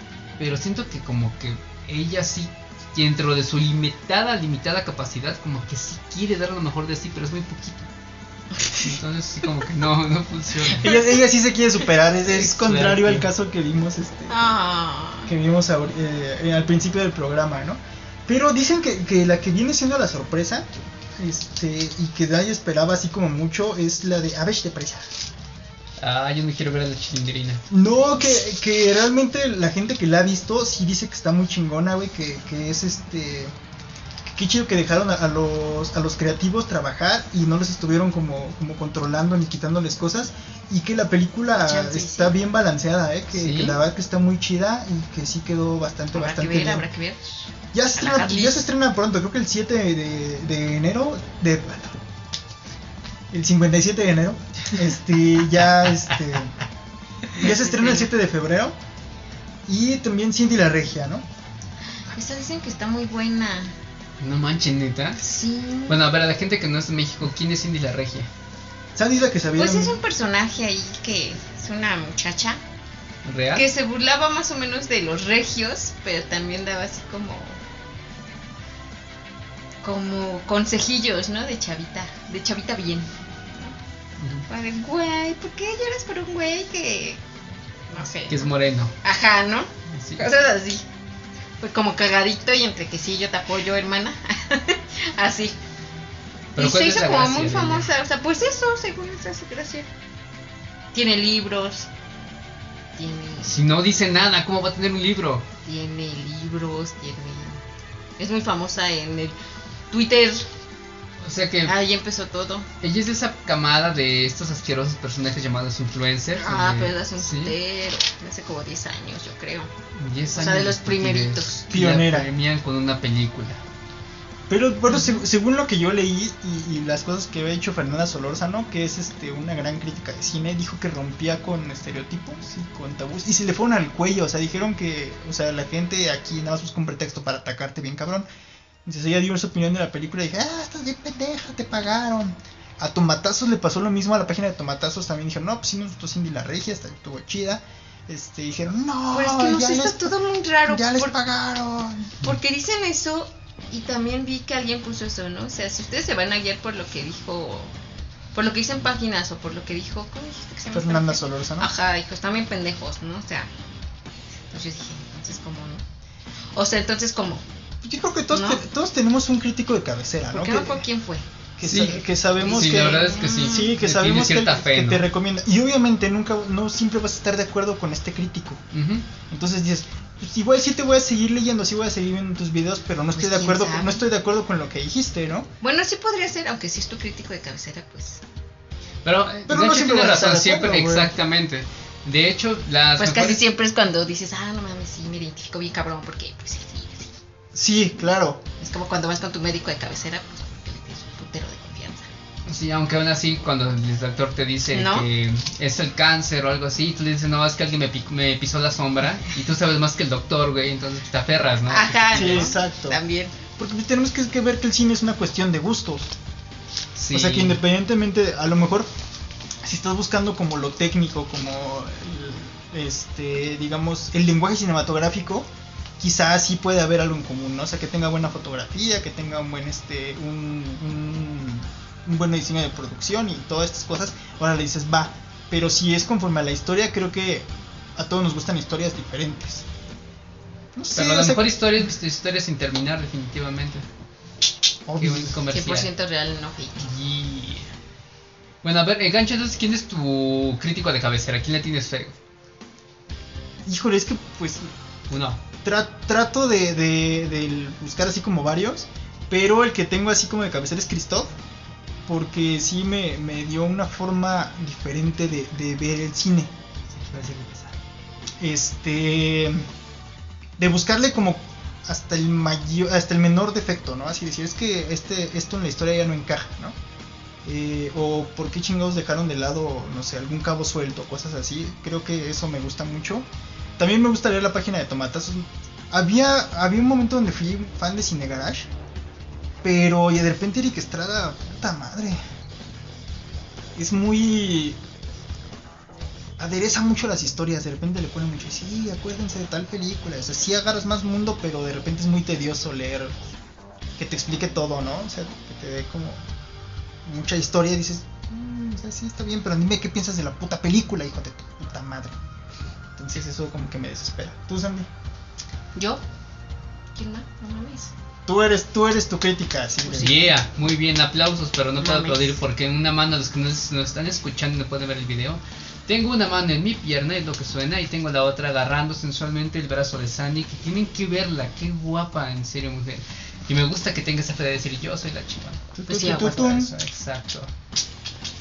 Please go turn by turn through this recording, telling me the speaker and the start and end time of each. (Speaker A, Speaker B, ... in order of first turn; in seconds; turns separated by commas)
Speaker A: 0.4-7.9, Speaker A: 8.7-10.9, Speaker B: 10.8-14.4, Speaker A: 12.2-13.3, Speaker C: 14.3-15.3, Speaker B: 15.2-20.6, Speaker B: 21.2-25.1, Speaker A: 26.0-27.6, Speaker B: 27.7-33.5, Speaker B: 34.2-46.9, Speaker C: 41.5-42.4, Speaker A: 43.3-43.8, Speaker C: 46.1-48.7, Speaker B: 47.7-52.0, Speaker B: 53.3-56.6, Speaker B: 57.3-58.8, Speaker C: 57.4-58.1, Speaker B: 59.7-61.2, Speaker C: 62.1-63.7, Speaker A: 64.2-65.2, Speaker C: 65.2-65.9, Speaker A: 65.9-68.3, Speaker B: 69.0-70.0, Speaker C: 69.5-72.6, Speaker A: 73.2-73.7, Speaker C: 73.5-77.6, Speaker C: 79.8-83.8, Speaker A: 84.2-84.5, Speaker C: 84.5-87.2, Speaker C: 87.9-88.5, Speaker A: 88.3-88.9, Speaker C: 89.0-90.8, Speaker A: 89.9-90.3, Speaker C: 91.6-95.6, Speaker A: 96.5-97.9, Speaker C: 96.5-99.9, Speaker C: 100.9-101.9, Speaker C: 103.0-103.5, Speaker A: 103.4-105.5, Speaker C: 105.6-107.6, Speaker C: 108.2-109.3, Speaker C: 109.9-110.5, Speaker A: 111.2-111.8, Speaker C: 111.6-112.7, Speaker A: 112.8-117.5, Speaker C: 116.3-119.7, Speaker A: 119.9-123.6, Speaker C: 120.3-121.6, Speaker B: 121.7-122.3, Speaker B: 124.5-138.3, Speaker B: 138.8-150.1, Speaker C: 149.1-151.1, Speaker B: 150.7-152.2, Speaker C: 152.2-157.7, Speaker C: 158.3-163.5, Speaker B: 160.7-161.7, Speaker C: 164.5-165.8, Speaker C: 166.5-167.4, Speaker B: 167.8-170.8, Speaker C: 168.3-168.6, Speaker C: 170.3-173.7, Speaker B: 171.6-178.6, Speaker A: 171.6-175.1, Speaker A: 178.7-179.1, Speaker B: 179.3-185.5, Speaker C: 183.1-184.0, Speaker C: 185.6-188.2, Speaker A: 189.0-193.4, Speaker B: 189.5-191.1, Speaker C: 193.0-197.1, Speaker B: 197.5-198.4, Speaker C: 198.6-202.1, Speaker A: 202.4-212.5, Speaker C: 204.7-205.1, Speaker C: 211.7-213.3, Speaker B: 212.1-213.0, Speaker B: 213.6-216.1, Speaker A: 216.9-217.6, Speaker B: 217.1-218.9, Speaker B: 219.6-225.5, Speaker B: 226.0-239.6, Speaker B: 240.7-241.5, Speaker A: 240.9-243.9, Speaker B: 244.8-245.4, Speaker A: 245.0-245.9, Speaker C: 245.5-246.9, Speaker A: 246.8-247.7, Speaker A: 248.6-252.2, Speaker B: 253.7-254.7, Speaker A: 255.1-255.4, Speaker B: 255.6-261.3, Speaker B: 262.1-266.5, Speaker A: 266.9-267.7, Speaker B: 268.4-269.6, Speaker B: 270.6-276.7, Speaker B: 277.4-283.3, Speaker B: 283.8-288.7, Speaker B: 289.6-292.2, Speaker B: 293.8-294.8, Speaker B: 296.4-303.2, Speaker B: 304.0-306.2, Speaker B: 307.0-312.2, Speaker B: 312.9-314.9, Speaker C: 315.7-316.0, Speaker C: 316.9-317.9, Speaker B: 318.3-320.2, Speaker A: 319.9-337.5, Speaker C: 319.9-320.2, Speaker C: 321.8-322.4, Speaker B: 335.7-336.7, Speaker C: 335.9-336.4